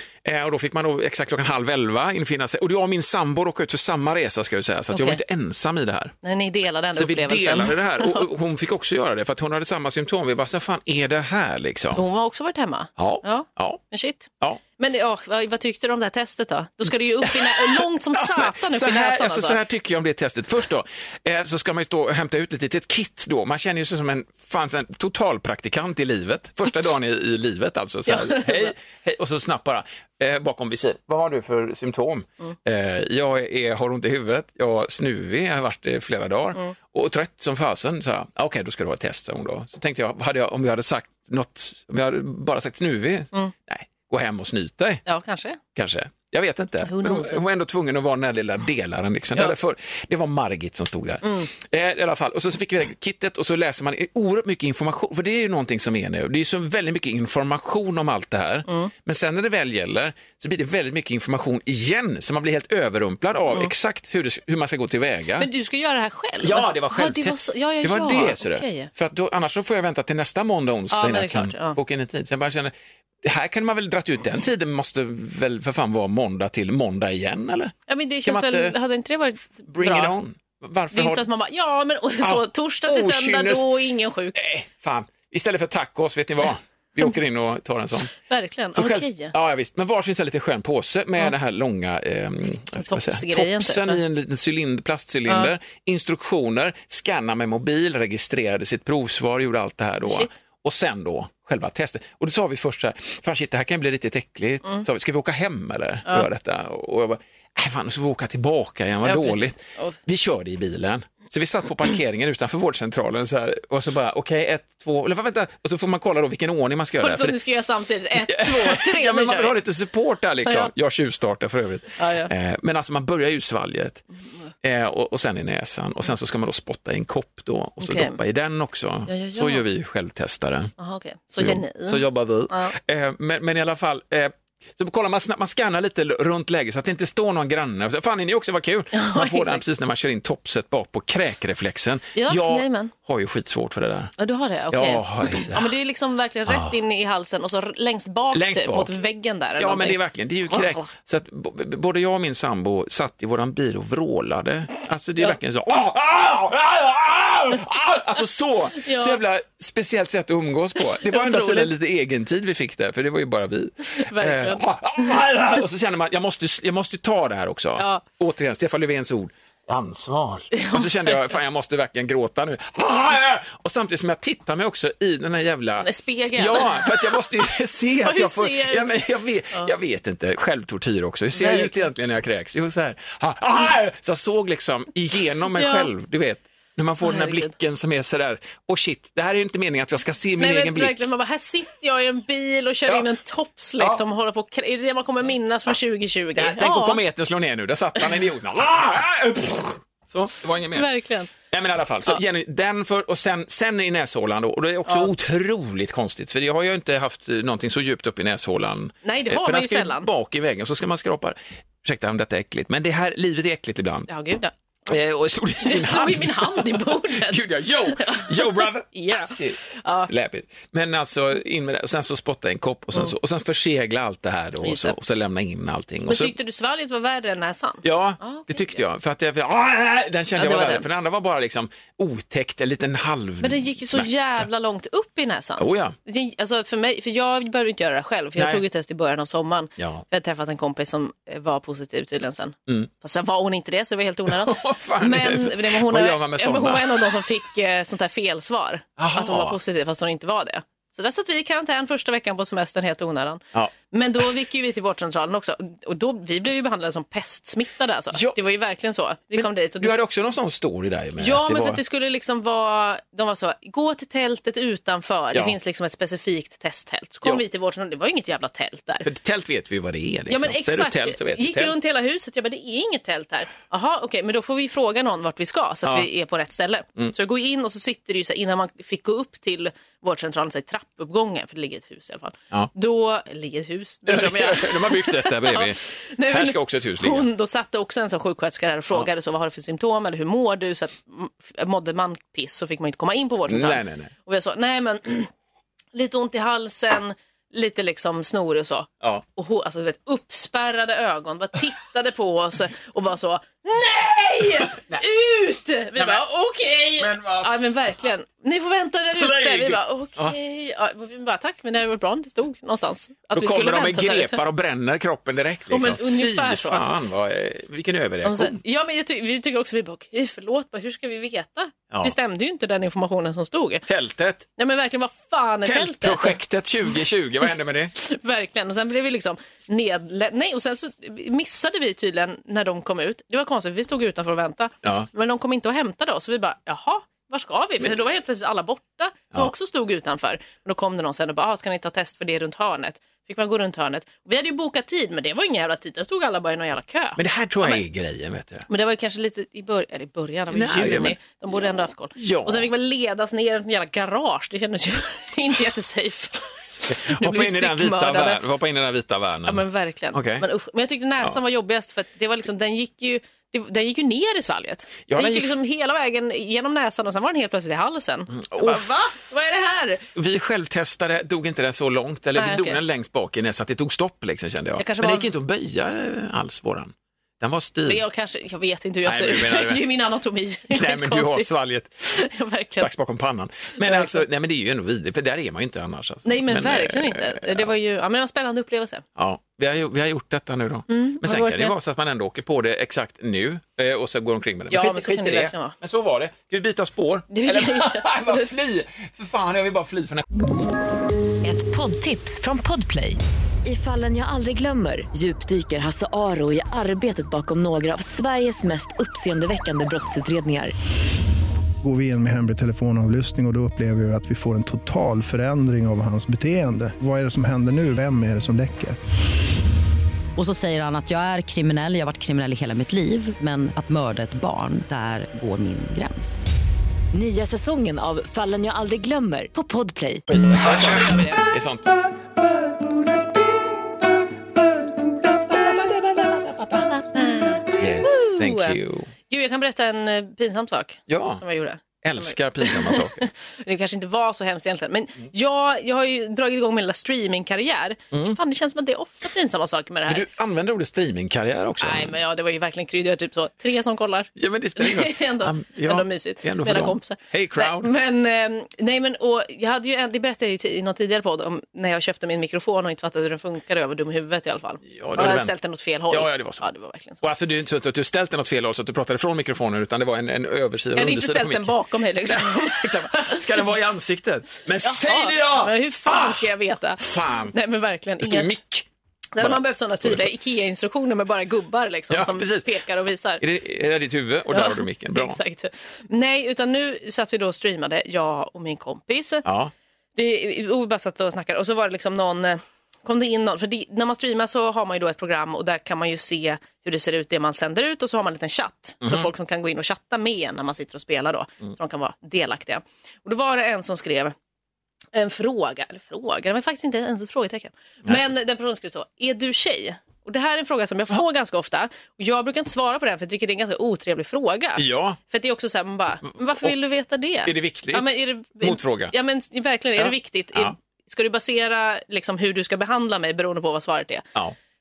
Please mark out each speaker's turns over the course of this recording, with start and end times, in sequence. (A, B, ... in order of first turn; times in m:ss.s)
0:00.2-0:06.2 A
0:04.9-0:05.2 B
0:06.2-0:08.3 B
0:06.9-0:12.0 A
0:11.9-0:19.6 B
0:13.0-0:13.8 A
0:17.2-0:45.0 A
0:28.1-0:28.7 B
0:45.1-0:45.6 B
0:45.8-1:05.5 A
0:46.8-0:47.4 B
0:51.2-0:51.5 B
1:05.4-1:08.9 B
1:06.4-1:18.8 A
1:10.9-1:11.8 B
1:17.9-1:20.1 B
1:19.7-1:21.3 A
1:20.9-1:24.4 B
1:22.2-1:23.7 A
1:24.4-1:28.1 A
1:28.2-1:29.3 B
1:28.7-1:57.4 A
1:32.8-1:34.0 B
1:35.3-1:35.5 B
1:40.0-1:40.3 B
1:49.0-1:50.0 B
1:57.0-1:59.6 B
1:58.2-2:04.0 A
2:00.4-2:00.7 B
2:02.0-2:02.3 B
2:04.6-2:10.7 A
2:07.8-2:08.2 B
2:09.1-2:09.6 B
2:10.8-2:12.7 B
2:11.4-2:24.1 A
2:18.9-2:19.6 B
2:22.2-2:22.9 B
2:24.2-2:30.0 B
2:24.7-2:25.7 A
2:26.5-2:26.7 A
2:28.3-2:28.9 A
2:29.6-3:11.1 A
2:30.5-2:30.9 B
2:38.8-2:39.2 B
2:41.0-2:41.7 B
2:44.0-2:45.0 B
2:47.8-2:48.0 B
2:50.5-2:51.4 B
2:55.8-2:57.2 B
2:58.0-2:59.0 B
3:01.3-3:01.9 B
3:05.5-3:05.9 B
3:07.0-3:07.5 B
3:10.4-3:17.0 B
3:16.4-3:20.9 A
3:18.0-3:18.2 B
3:20.7-3:21.3 B
3:21.5-3:34.1 A
3:29.0-3:30.1 B
3:34.1-3:34.5 B
3:34.9-3:46.4 A
3:35.6-3:40.1 B
3:44.6-3:45.0 B
3:46.1-3:48.8 B
3:47.8-3:54.5 A
3:50.4-3:50.9 B
3:53.4-4:20.0 B
3:55.6-3:56.0 A
3:58.4-3:58.6 A
3:59.8-4:00.0 A
4:04.3-4:07.3 A
4:09.0-4:09.6 A
4:13.5-4:14.2 A
4:18.1-4:18.4 A
4:19.4-4:21.8 A
4:21.2-4:29.1 B
4:29.0-4:31.8 A
4:30.3-4:55.3 B
4:44.1-4:47.3 A
4:53.5-4:54.1 A
4:55.9-5:14.4 B
5:04.6-5:05.0 A
5:06.0-5:06.2 A
5:07.0-5:07.6 A
5:09.1-5:10.4 A
5:13.3-5:18.6 A
5:15.7-5:16.9 B
5:18.2-5:23.8 B
5:23.9-5:24.5 A
5:24.6-5:26.4 B
5:25.6-5:27.9 A
5:28.0-5:47.8 B
5:34.8-5:35.1 A
5:47.2-5:48.7 A
5:48.7-5:58.4 B
5:50.5-5:51.2 A
5:52.2-5:52.7 A
5:56.9-6:00.5 A
5:59.5-6:10.1 B
6:05.1-6:05.6 A
6:08.3-6:08.9 A
6:10.1-6:18.0 A
6:12.4-6:12.8 B
6:14.8-6:15.3 B
6:17.9-6:21.5 B
6:19.0-6:19.8 A
6:20.7-6:22.2 A
6:22.0-6:22.9 B
6:22.8-6:27.7 A
6:23.8-6:24.3 B
6:26.2-6:29.0 B
6:29.2-6:40.3 A
6:30.9-6:31.8 B
6:34.7-6:35.8 B
6:37.3-6:38.5 B
6:41.4-6:50.7 C
6:51.8-6:59.0 D
7:00.4-7:06.5 E
7:07.1-7:10.3 C
7:10.3-7:11.9 A
7:10.6-7:11.4 B
7:15.0-7:16.9 A
7:16.9-7:18.8 B
7:17.8-7:19.1 A
7:19.3-7:30.2 B
7:21.1-7:21.4 A
7:22.0-7:23.3 A
7:28.1-7:28.4 A
7:30.1-7:32.2 A
7:31.8-7:47.2 B
7:34.4-7:37.9 A
7:44.9-7:45.6 A
7:46.1-7:46.6 A
7:47.2-7:57.6 A
7:51.0-7:53.6 B
7:54.8-7:58.5 B
7:58.2-7:58.9 A
7:59.3-8:03.4 B
7:59.4-8:00.3 A
8:02.1-8:02.7 A
8:03.4-8:05.4 A
8:04.5-8:09.4 B
8:09.4-8:09.7 A
8:10.2-8:24.4 B
8:19.0-8:19.3 A
8:25.1-8:44.3 B
8:34.8-8:35.2 A
8:36.3-8:36.7 A
8:37.4-8:39.1 A
8:40.0-8:40.8 A